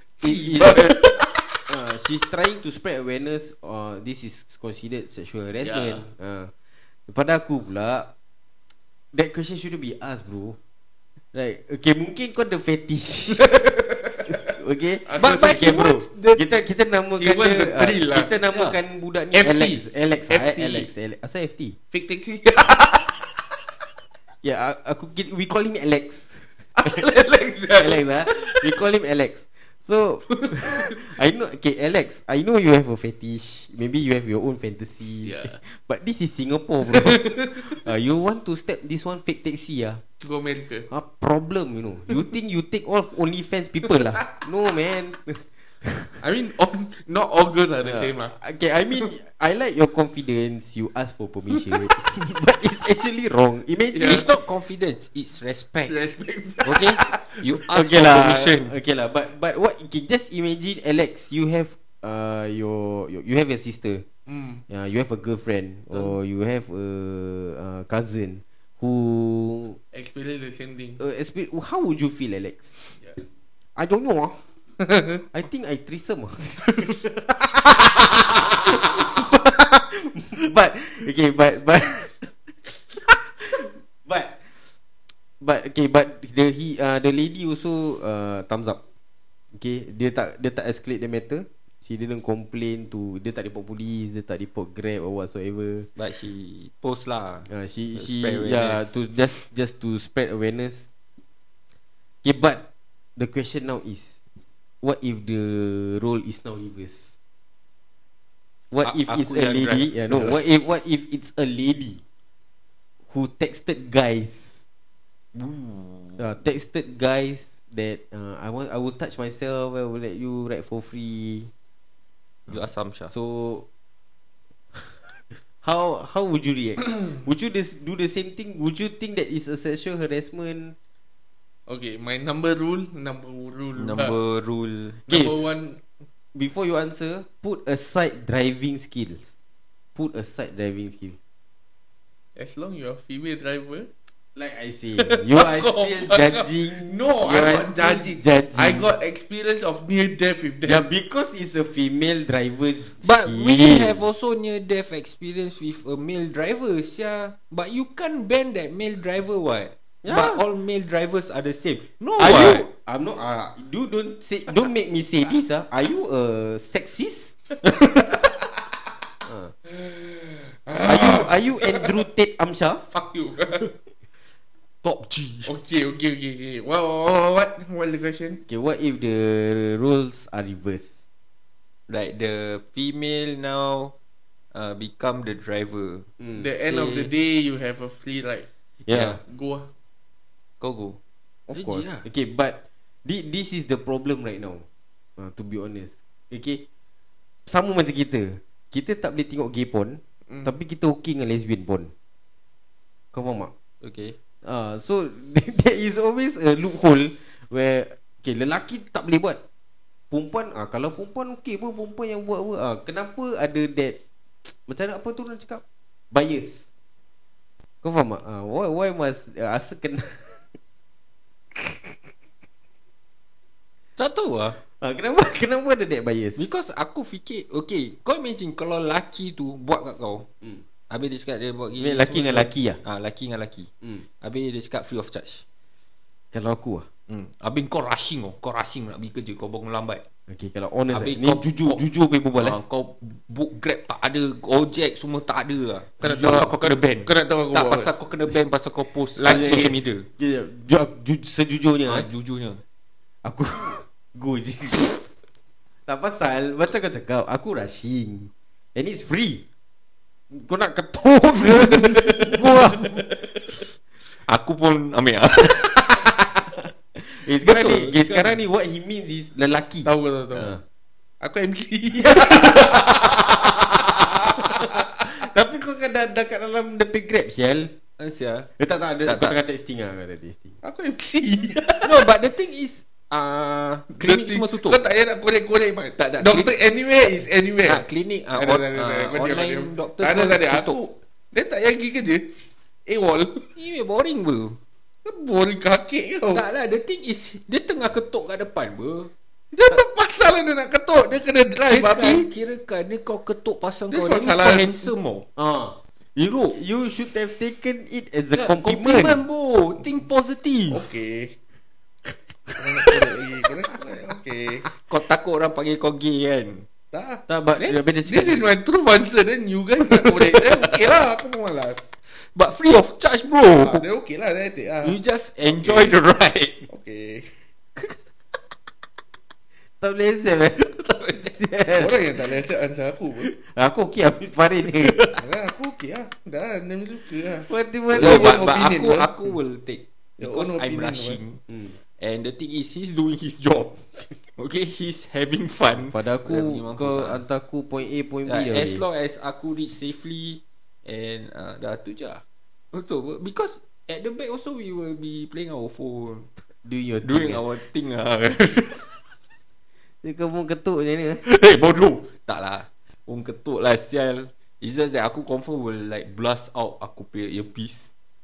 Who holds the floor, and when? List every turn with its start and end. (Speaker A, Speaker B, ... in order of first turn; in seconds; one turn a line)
Speaker A: 0.2-1.4
Speaker B: 0.2-1.0
Speaker B: 1.7-6.5
Speaker A: 5.6-6.0
Speaker B: 7.1-8.1
Speaker B: 9.1-10.6
Speaker B: 11.3-13.6
Speaker A: 13.3-14.4
Speaker B: 14.2-21.8
Speaker A: 15.1-15.9
Speaker C: 15.2-16.4
Speaker A: 17.1-18.4
Speaker C: 18.5-18.8
Speaker A: 19.3-20.9
Speaker A: 21.9-23.4
Speaker B: 24.4-27.0
Speaker A: 26.8-28.8
Speaker B: 27.8-40.0
Speaker A: 30.4-31.0
Speaker A: 35.2-35.6
Speaker A: 36.9-37.9
Speaker A: 40.2-40.9
Speaker B: 40.9-46.2
Speaker A: 46.2-48.4
Speaker B: 47.8-54.3
Speaker A: 51.5-51.9
Speaker A: 53.9-54.3
Speaker C: 54.0-56.0
Speaker A: 55.9-57.4
Speaker C: 56.6-58.7
Speaker B: 57.7-64.0
Speaker A: 64.3-64.7
Speaker B: 64.7-69.8
Speaker A: 65.9-66.2
Speaker A: 69.9-71.0
Speaker B: 71.0-72.7
Speaker B: 73.8-74.4
Speaker A: 74.8-75.2
Speaker B: 75.3-84.4
Speaker B: 85.4-88.8
Speaker B: 89.5-95.9
Speaker C: 96.0-99.1
Speaker B: 97.5-100.9
Speaker B: 102.2-102.7
Speaker B: 103.2-104.2
Speaker B: 104.8-107.1
Speaker B: 108.7-112.0
Speaker C: 108.8-110.4
Speaker B: 113.1-114.6
Speaker C: 115.3-116.3
Speaker B: 116.2-121.5
Speaker C: 122.5-123.1
Speaker B: 123.1-123.7
Speaker B: 124.7-130.8
Speaker A: 131.7-134.2
Speaker C: 133.8-135.0
Speaker B: 135.1-135.4
Speaker A: 135.1-135.8
Speaker B: 136.3-139.3
Speaker B: 139.9-141.2
Speaker A: 142.4-143.9
Speaker B: 144.3-148.9
Speaker A: 145.0-150.9
Speaker B: 150.7-154.1
Speaker C: 152.9-162.7
Speaker B: 160.0-160.4
Speaker B: 162.2-167.4
Speaker A: 167.6-168.6
Speaker B: 169.2-169.5
Speaker A: 169.7-172.0
Speaker B: 170.9-172.8
Speaker A: 172.9-173.7
Speaker C: 174.8-175.5
Speaker A: 175.4-178.4
Speaker B: 178.5-180.9
Speaker C: 181.9-183.9
Speaker C: 184.5-186.1
Speaker B: 186.2-186.9
Speaker A: 186.4-188.5
Speaker B: 188.8-189.2
Speaker C: 188.9-189.2
Speaker A: 189.2-189.7
Speaker C: 190.6-191.0
Speaker B: 191.5-194.6
Speaker C: 191.5-192.1
Speaker B: 195.2-196.6
Speaker B: 197.5-201.9
Speaker B: 203.1-203.5
Speaker C: 203.8-204.2
Speaker B: 204.4-209.4
Speaker B: 210.1-216.6
Speaker B: 217.8-220.6
Speaker B: 221.5-222.1
Speaker C: 224.0-224.6
Speaker B: 224.8-226.4
Speaker C: 226.4-230.3
Speaker C: 230.9-235.4
Speaker B: 231.8-232.8
Speaker B: 236.3-236.9
Speaker C: 237.1-240.0
Speaker B: 240.3-242.6
Speaker C: 240.9-250.1
Speaker A: 246.0-247.9
Speaker A: 249.2-249.8
Speaker B: 249.3-252.1
Speaker C: 251.9-252.6
Speaker B: 253.2-254.9
Speaker B: 255.9-259.4
Speaker B: 260.3-263.1
Speaker A: 261.8-263.0
Speaker C: 264.2-266.1
Speaker B: 266.9-270.6
Speaker C: 267.4-268.4
Speaker A: 269.9-270.6
Speaker A: 271.2-273.2
Speaker B: 272.1-273.5
Speaker B: 274.4-277.7
Speaker A: 274.4-275.0
Speaker C: 278.0-278.5
Speaker B: 278.6-280.6
Speaker C: 279.1-279.4
Speaker A: 280.6-282.1
Speaker C: 281.8-284.8
Speaker A: 283.9-293.5
Speaker C: 286.0-286.6
Speaker C: 287.6-290.8
Speaker C: 293.6-294.6
Speaker A: 295.1-296.5
Speaker C: 296.3-299.1
Speaker A: 299.5-302.3
Speaker C: 301.7-305.3
Speaker A: 303.9-304.9
Speaker B: 305.4-309.2
Speaker C: 308.3-310.9
Speaker A: 310.7-311.4
Speaker A: 312.6-314.7
Speaker C: 314.8-316.7
Speaker A: 316.9-317.2
Speaker B: 317.3-318.5
Speaker A: 318.1-321.9
Speaker C: 320.5-320.8
Speaker C: 322.1-323.8
Speaker A: 323.6-326.0
Speaker C: 324.8-326.7
Speaker A: 326.7-327.3
Speaker B: 329.8-332.1
Speaker A: 331.7-333.3
Speaker B: 333.2-335.1
Speaker A: 335.1-339.1
Speaker B: 337.5-338.5
Speaker C: 337.9-347.2
Speaker A: 340.2-341.2
Speaker B: 341.5-341.8
Speaker B: 345.9-348.8
Speaker C: 348.3-356.3
Speaker B: 356.6-357.4
Speaker C: 357.0-359.0
Speaker B: 360.0-361.2
Speaker C: 361.2-367.9